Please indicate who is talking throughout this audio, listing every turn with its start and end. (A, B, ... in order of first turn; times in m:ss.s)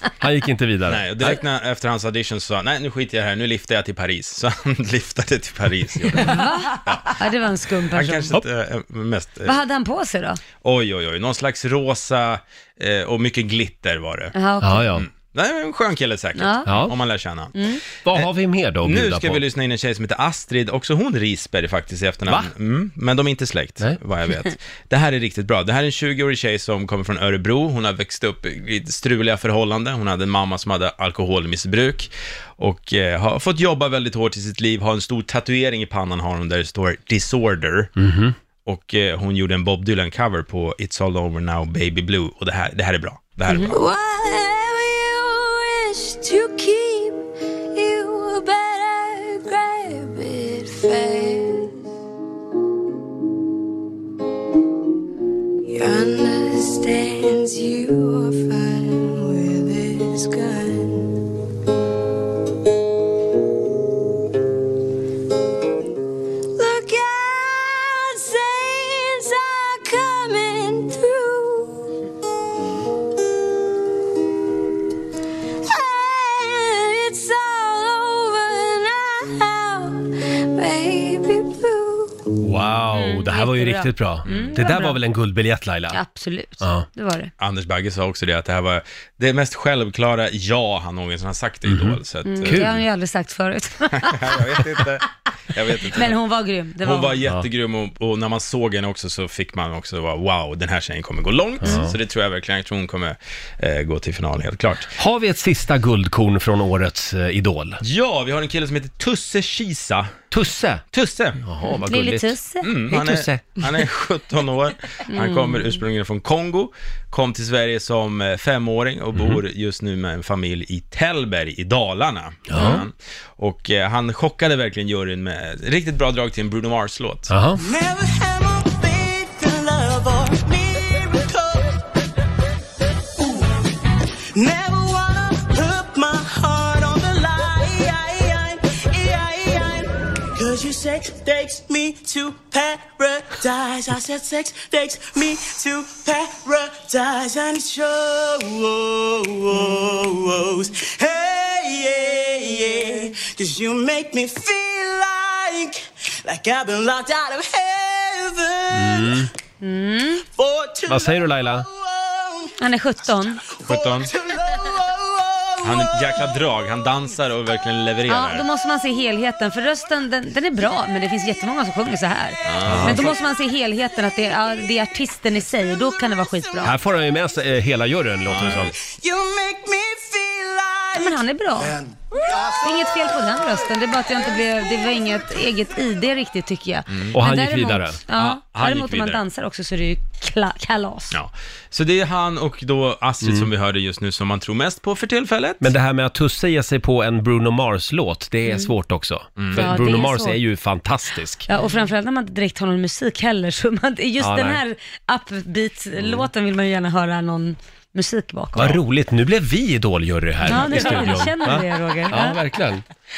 0:00.2-0:01.4 A
0:00.9-0:07.2 B
0:06.2-0:08.4 C
0:07.9-0:09.6 B
0:09.4-0:10.4 C
0:10.6-0:14.4 B
0:14.3-0:15.0 C
0:14.6-0:15.1 A
0:15.0-0:18.3 B
0:16.4-0:16.8 C
0:16.7-0:16.9 A
0:17.6-0:17.8 C
0:18.0-0:19.4 A
0:18.8-0:38.0 B
0:38.0-0:38.4 A
0:38.6-0:43.8 B
0:43.5-0:43.7 C
0:43.7-0:51.8 D
0:55.7-1:01.2 D
1:06.6-1:11.9 D
1:15.7-1:22.3 D
1:22.4-1:26.0 A
1:22.9-1:25.0 C
1:24.2-1:24.5 B
1:25.9-1:27.3 C
1:26.6-1:26.9 A
1:27.4-1:32.6 B
1:31.7-1:32.8 A
1:32.3-1:34.9 C
1:34.0-1:36.2 B
1:35.8-1:37.2 C
1:36.8-1:44.9 B
1:41.6-1:41.9 A
1:41.6-1:41.9 C
1:45.0-1:47.8 A
1:47.8-1:50.2 B
1:50.3-1:50.8 A
1:50.9-1:51.4 B
1:51.4-1:52.4 A
1:51.6-1:52.7 C
1:52.6-2:07.3 B
1:52.9-1:53.5 A
1:55.1-1:55.7 C
2:02.5-2:02.8 A
2:02.6-2:02.8 C
2:07.3-2:07.6 A
2:07.6-2:11.8 E
2:13.2-2:13.6 E
2:14.3-2:39.3 E
2:38.7-2:39.3 A
2:39.6-2:40.2 C
2:40.4-2:42.5 E
2:40.9-2:41.7 A
2:42.6-2:43.4 C
2:43.5-2:46.4 E
2:43.6-2:44.1 B
2:45.6-2:48.4 B
2:48.1-2:56.8 C
2:52.4-2:53.2 B
2:52.6-2:53.0 A
2:56.6-2:58.7 A
2:58.3-2:58.7 B
2:58.5-3:01.3 E
3:01.0-3:01.8 C
3:02.1-3:02.7 E
3:02.6-3:11.2 C
3:06.9-3:07.2 B
3:07.1-3:08.3 A
3:08.4-3:09.2 B
3:11.1-3:15.7 B
3:13.2-3:13.5 A
3:15.6-3:21.5 A
3:18.5-3:18.7 C
3:19.4-3:19.8 B
3:19.5-3:20.4 C
3:21.5-3:28.8 C
3:24.2-3:24.6 A
3:26.0-3:26.3 A
3:28.6-3:32.8 A
3:30.4-3:32.4 C